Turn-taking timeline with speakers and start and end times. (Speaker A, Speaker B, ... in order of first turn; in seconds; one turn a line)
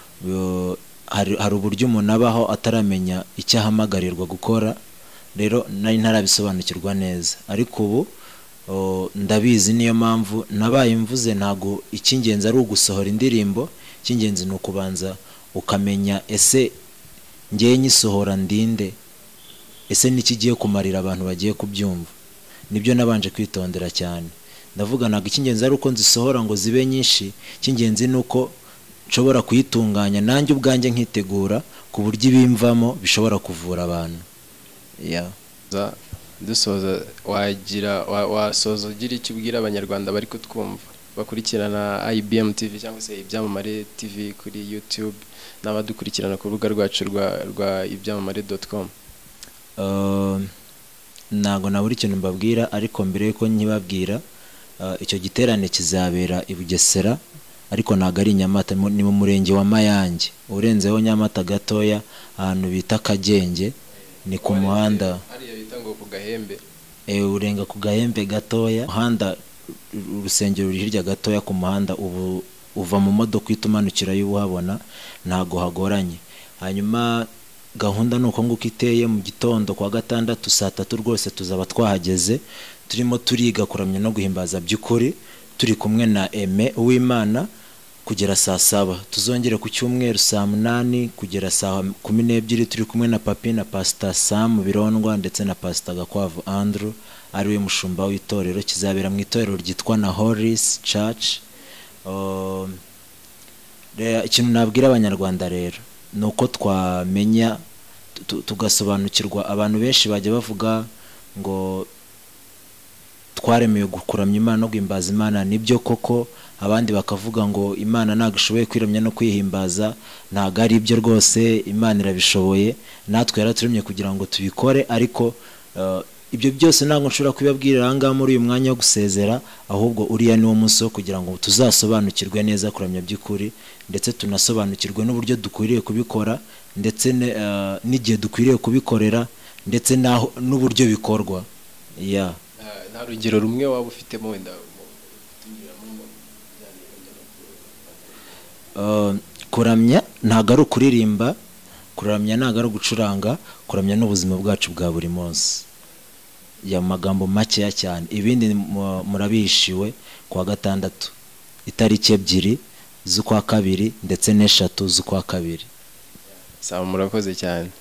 Speaker A: 0.2-4.8
Speaker A: 5.3-8.1
Speaker A: 8.7-16.7
Speaker A: 17.5-19.0
Speaker A: 19.9-22.1
Speaker A: 22.7-28.6
Speaker A: 29.1-34.3
Speaker A: 35.0-35.3
Speaker B: 35.7-48.9
Speaker A: 49.8-50.5
Speaker A: 51.3-54.2
Speaker A: 54.8-63.8
Speaker A: 64.3-65.2
Speaker B: 64.4-66.6
Speaker A: 67.1-69.4
Speaker A: 69.9-87.5
Speaker A: 88.0-101.5
Speaker A: 102.1-102.8
Speaker A: 104.0-107.6
Speaker A: 108.2-111.9
Speaker A: 113.3-141.5
Speaker A: 142.0-142.4
Speaker B: 142.6-148.1
Speaker A: 148.8-151.3
Speaker A: 152.0-155.7
Speaker A: 156.7-161.2
Speaker A: 161.7-165.7
Speaker B: 166.6-167.7